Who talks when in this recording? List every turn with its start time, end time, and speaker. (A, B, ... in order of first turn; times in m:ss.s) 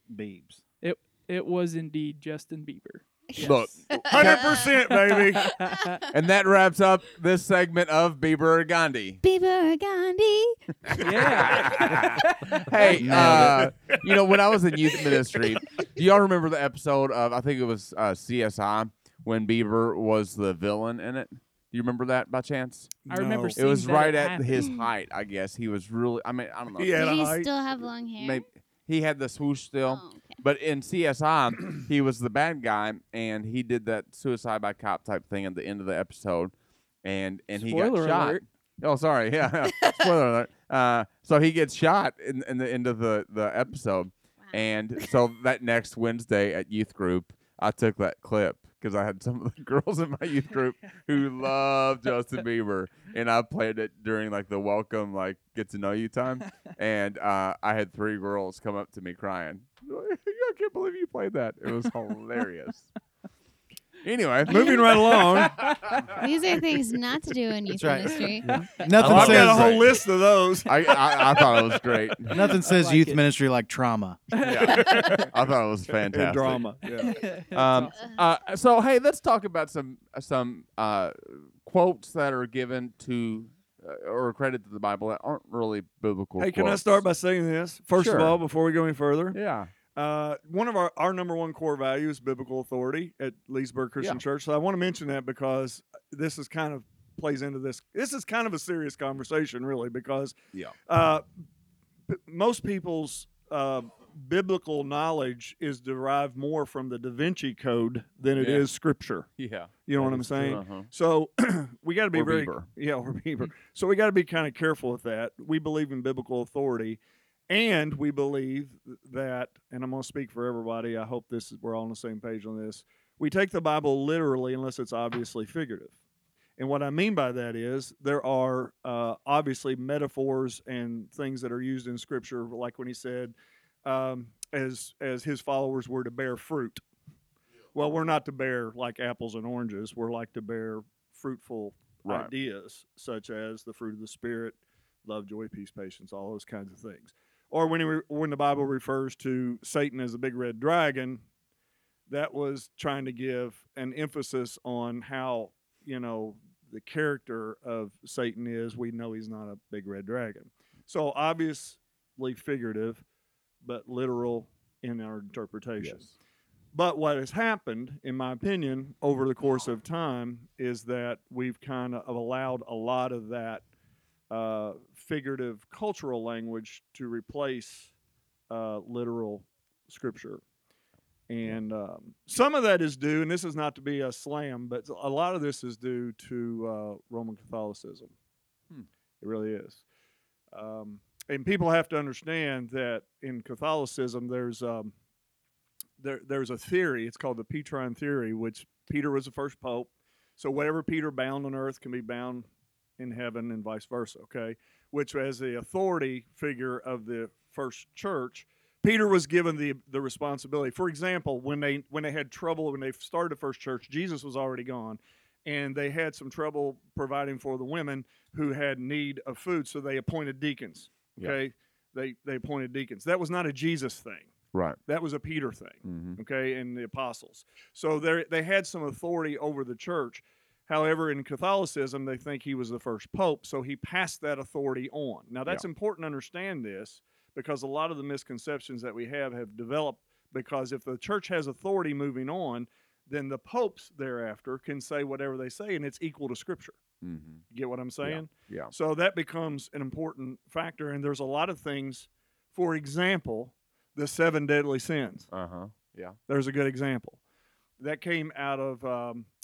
0:00.1-0:00.6 A
0:00.8-0:03.7 B
0:03.3-0:06.0 C
0:03.4-0:04.5 D
0:04.1-0:05.6 E
0:05.4-0:06.0 B
0:06.1-0:09.2 D
0:09.2-0:11.1 C
0:10.9-0:23.0 D
0:11.0-0:13.0 B
0:13.0-0:13.7 A
0:13.0-0:14.2 E
0:14.9-0:15.2 E
0:23.0-0:23.6 E
0:23.1-0:24.6 B
0:23.6-0:27.0 D
0:26.8-0:27.8 E
0:26.9-0:28.4 C
0:28.2-1:02.9 D
0:29.9-0:30.4 C
0:37.5-0:38.4 B
1:04.0-1:05.2 D
1:04.5-1:05.8 E
1:04.5-1:04.9 C
1:05.3-1:06.0 B
1:06.1-1:08.9 C
1:07.7-1:09.8 A
1:09.0-1:11.6 E
1:09.0-1:10.0 D
1:10.6-1:12.4 D
1:12.3-1:14.2 A
1:12.3-1:13.2 B
1:14.3-1:15.2 B
1:14.4-1:16.7 D
1:14.6-1:15.4 E
1:16.0-1:17.2 E
1:17.0-1:18.0 B
1:17.5-1:27.0 D
1:26.4-1:29.4 E
1:28.0-1:28.4 D
1:29.3-1:29.7 D
1:30.0-1:40.3 E
1:40.9-1:41.2 E
1:42.1-1:49.3 E
1:48.3-1:48.7 D
1:49.4-1:50.9 D
1:49.8-2:06.0 E
1:52.1-1:52.7 D
2:06.6-2:16.8 E
2:17.7-2:31.2 E
2:22.0-2:22.3 D
2:32.1-2:43.0 E
2:43.6-2:46.1 E
2:45.8-2:46.2 D
2:46.7-2:53.7 E
2:54.3-2:57.9 E
2:58.5-3:00.4 E
3:01.3-3:08.1 E
3:09.2-3:09.8 E
3:10.5-3:14.9 E
3:16.0-3:22.5 E
3:23.0-3:44.3 E
3:44.5-3:44.8 D
3:44.9-4:06.8 E
3:45.8-3:46.2 D
4:07.0-4:07.4 D
4:07.5-4:15.3 E
4:08.0-4:08.7 D
4:15.3-4:16.2 D
4:16.3-4:17.2 E
4:17.8-4:19.3 E